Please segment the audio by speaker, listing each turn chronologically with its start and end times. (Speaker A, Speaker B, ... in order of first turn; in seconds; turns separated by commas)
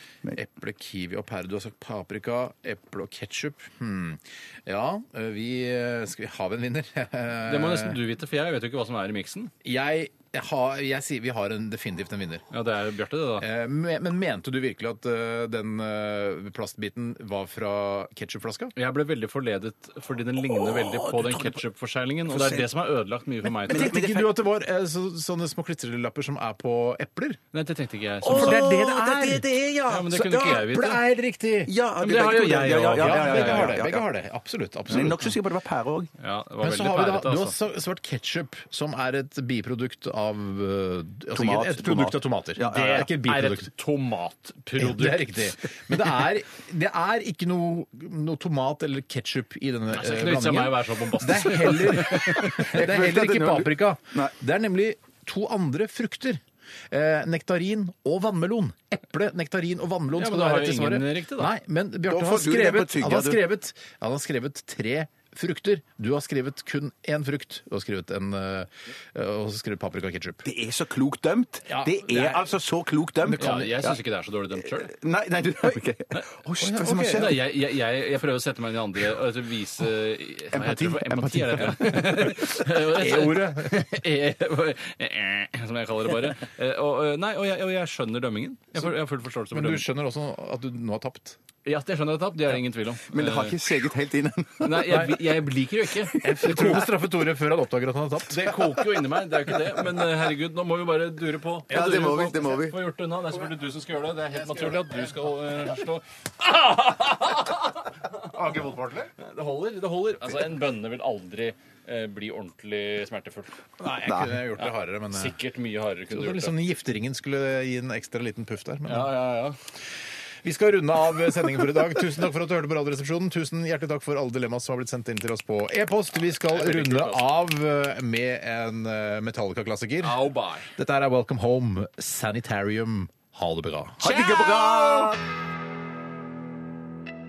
Speaker A: 0.3-8.0, Speaker B: 7.4-9.5, Speaker A: 9.6-12.4, Speaker B: 12.5-13.5, Speaker A: 13.4-18.7, Speaker B: 18.7-24.0, Speaker C: 20.6-21.6, Speaker C: 22.3-22.6, Speaker C: 23.7-24.3, Speaker A: 23.7-27.4, Speaker B: 27.5-28.6, Speaker C: 28.2-30.6, Speaker A: 28.3-29.4, Speaker B: 29.9-31.0, Speaker A: 30.2-31.7, Speaker C: 31.7-34.0, Speaker B: 32.0-33.8, Speaker A: 33.0-35.3, Speaker C: 34.9-36.1, Speaker B: 36.2-37.5, Speaker A: 36.6-43.7, Speaker C: 41.3-43.1, Speaker B: 42.8-45.4, Speaker A: 44.8-70.4, Speaker B: 49.9-52.7, Speaker C: 52.3-54.3, Speaker B: 60.1-61.5, Speaker C: 62.1-63.4, Speaker C: 70.4-74.0, Speaker A: 71.7-72.5, Speaker A: 73.2-73.9, Speaker B: 73.4-74.9, Speaker C: 74.7-77.4, Speaker A: 76.6-77.3, Speaker B: 76.9-89.9, Speaker A: 80.5-83.9, Speaker A: 89.5-91.4, Speaker B: 91.6-93.6, Speaker C: 93.1-95.0, Speaker B: 94.6-96.8, Speaker C: 96.1-96.6, Speaker A: 96.2-98.6, Speaker B: 98.3-108.2, Speaker C: 101.7-102.8, Speaker A: 108.2-109.1, Speaker B: 109.2-113.5, Speaker A: 113.8-115.3, Speaker C: 114.1-114.4, Speaker B: 114.6-116.5, Speaker A: 116.1-119.1, Speaker B: 118.9-119.5, Speaker A: 120.4-130.2, Speaker B: 126.4-127.3, Speaker B: 130.0-130.7, Speaker A: 130.7-134.0, Speaker C: 134.0-135.2, Speaker B: 134.0-134.8